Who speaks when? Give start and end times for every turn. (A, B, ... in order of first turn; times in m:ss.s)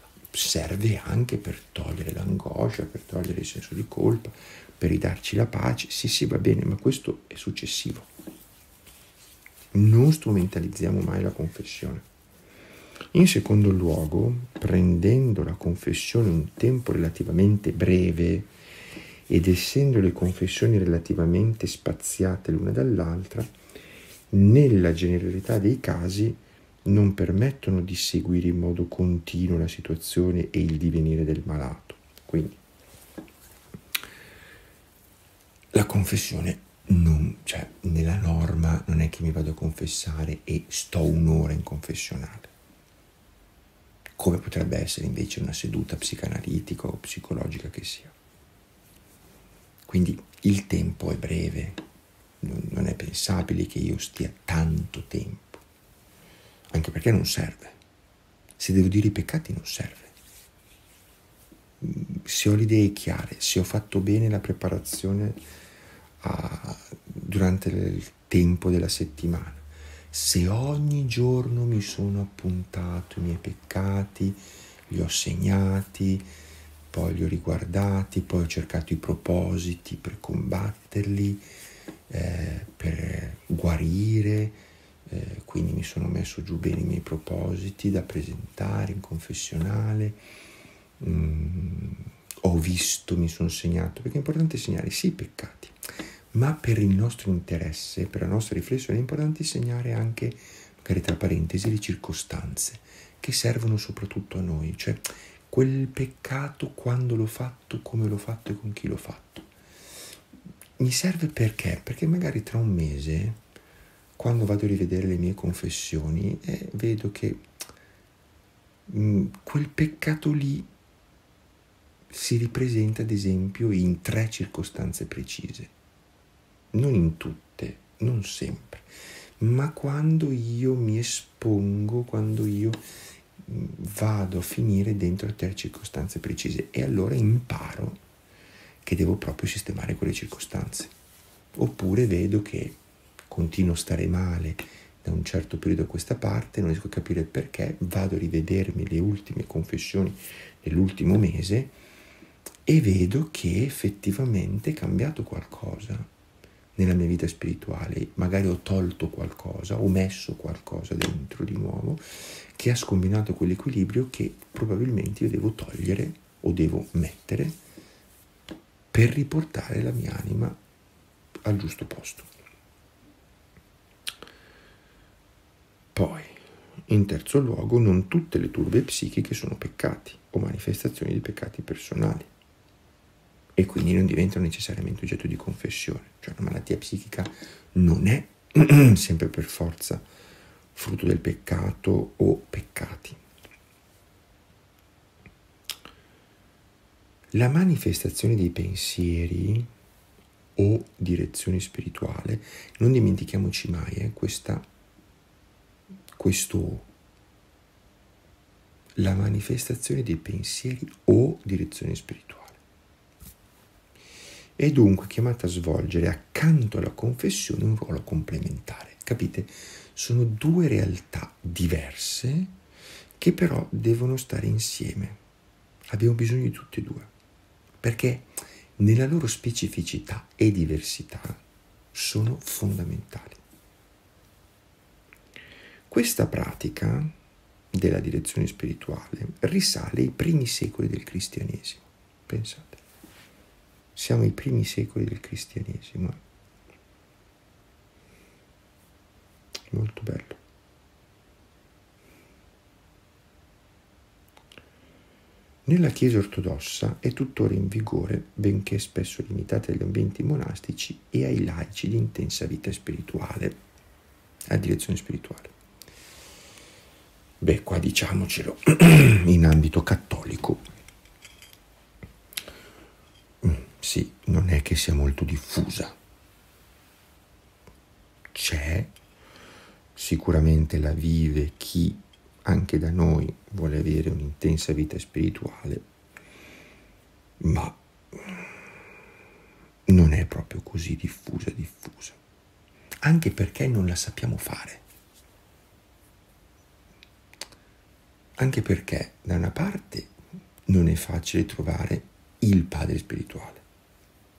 0:00.3-0:08.1 A
0:09.7-0:12.0 A
0:13.1-0:18.5 A
0:19.3-0:23.5 A
0:24.3-0:32.6 A
0:35.7-0:42.5 A
0:44.2-0:48.1 A
0:49.8-0:51.8 A
0:52.4-0:55.6 A
0:56.7-0:57.8 A
0:58.6-1:00.1 A
1:01.8-1:05.4 A
1:06.2-1:16.3 A
1:16.9-1:21.4 A
1:22.1-1:30.2 A
1:31.0-1:35.7 A
1:36.3-1:49.5 A
1:50.8-1:53.4 A
1:54.2-1:57.4 A
1:58.9-2:00.7 A
2:02.1-2:05.7 A
2:06.7-2:08.8 A
2:09.4-2:12.8 A
2:13.4-2:18.0 A
2:18.8-2:20.9 A
2:21.5-2:22.8 A
2:23.3-2:31.7 A
2:32.6-2:36.1 A
2:36.8-2:42.0 A
2:42.5-2:47.6 A
2:48.9-2:50.6 A
2:51.4-2:52.3 A
2:55.9-3:02.3 A
3:03.6-3:10.0 A
3:10.7-3:13.2 A
3:17.3-3:19.7 A
3:20.6-3:24.7 A
3:26.1-3:26.9 A
3:29.0-3:32.6 A
3:34.6-3:42.5 A
3:43.2-3:45.2 A
3:45.9-3:47.1 A
3:47.8-3:51.4 A
3:51.9-3:53.4 A
3:55.9-3:57.1 A
3:57.7-4:02.8 A
4:03.9-4:06.2 A
4:09.7-4:10.4 A
4:15.6-4:23.6 A
4:24.5-4:25.5 A
4:27.4-4:30.6 A
4:33.4-4:36.0 A
4:38.3-4:38.9 A
4:39.9-4:45.8 A
4:47.4-4:48.4 A
4:49.9-4:52.2 A
4:53.0-4:54.8 A
4:58.4-5:00.1 A
5:00.6-5:03.6 A